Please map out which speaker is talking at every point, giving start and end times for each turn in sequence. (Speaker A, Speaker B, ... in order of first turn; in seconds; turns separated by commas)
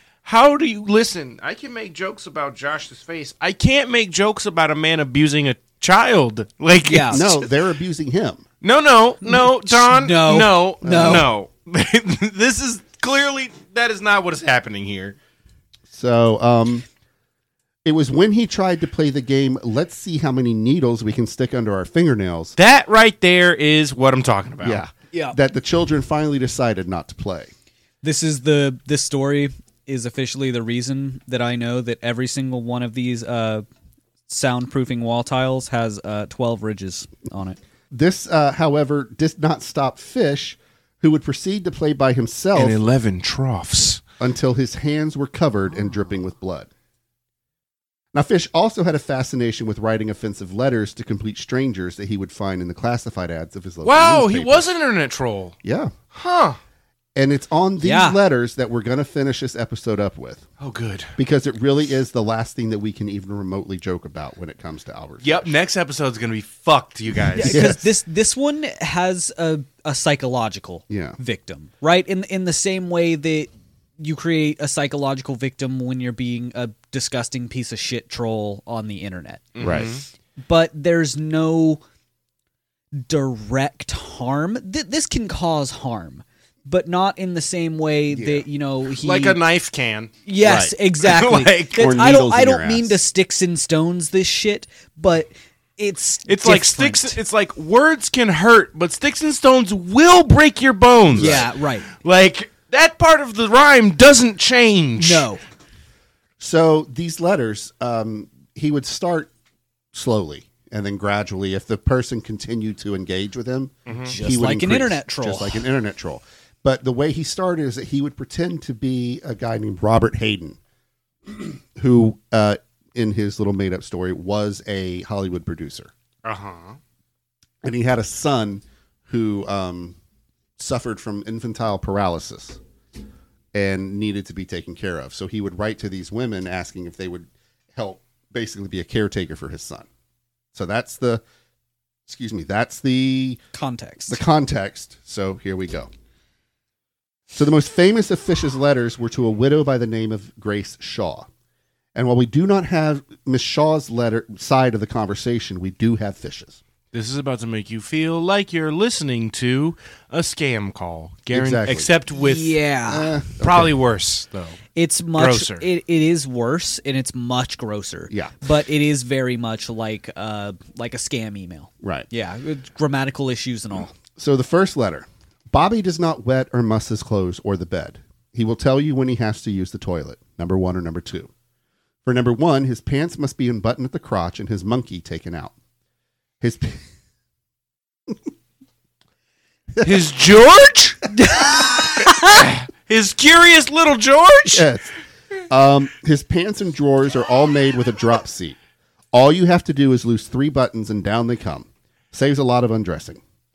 Speaker A: 0.2-7.5, Speaker B: 6.8-7.2, Speaker C: 7.1-8.4, Speaker A: 8.6-15.2, Speaker B: 9.2-11.3, Speaker C: 10.8-11.3, Speaker C: 15.9-16.9, Speaker C: 17.9-22.6, Speaker A: 22.6-24.8, Speaker C: 24.6-27.5, Speaker B: 28.0-33.6, Speaker B: 34.3-37.6, Speaker C: 37.9-42.8, Speaker A: 42.5-44.0, Speaker C: 44.2-46.7, Speaker C: 48.1-54.7, Speaker A: 53.8-55.6, Speaker C: 55.6-55.9, Speaker A: 56.1-56.6, Speaker C: 57.2-60.5, Speaker B: 57.8-58.2, Speaker A: 60.6-61.1, Speaker C: 61.2-65.6, Speaker A: 65.2-67.7, Speaker B: 67.4-79.9, Speaker C: 67.4-67.8, Speaker C: 70.9-71.2, Speaker A: 79.5-80.0, Speaker C: 79.6-79.9, Speaker B: 80.4-81.8, Speaker B: 83.0-89.4, Speaker C: 88.1-88.5, Speaker A: 89.0-90.2, Speaker B: 90.3-97.2, Speaker C: 90.4-90.7, Speaker A: 91.0-92.0, Speaker C: 91.8-93.0, Speaker A: 96.3-105.3, Speaker C: 101.1-101.5, Speaker B: 101.1-101.9, Speaker B: 105.0-105.4, Speaker C: 106.4-109.3, Speaker C: 109.9-120.6, Speaker A: 113.9-114.1, Speaker B: 114.1-115.6, Speaker C: 121.3-125.9, Speaker A: 126.2-126.8, Speaker C: 127.6-130.0, Speaker C: 130.6-132.6, Speaker C: 133.5-139.9, Speaker C: 140.5-141.2, Speaker C: 142.1-143.4, Speaker B: 143.5-144.2, Speaker C: 144.1-145.9, Speaker C: 147.3-151.3, Speaker C: 151.9-156.6, Speaker A: 156.9-162.6, Speaker C: 161.3-161.9, Speaker B: 162.2-163.2, Speaker C: 162.9-163.7, Speaker A: 163.4-164.6, Speaker B: 164.7-173.9, Speaker A: 165.2-165.7, Speaker C: 171.8-172.1, Speaker C: 174.2-181.3, Speaker C: 182.1-185.5, Speaker C: 186.4-186.8, Speaker A: 189.8-191.1, Speaker B: 191.1-192.5, Speaker A: 192.0-194.7, Speaker C: 194.5-194.9, Speaker C: 195.5-198.6, Speaker C: 199.1-203.2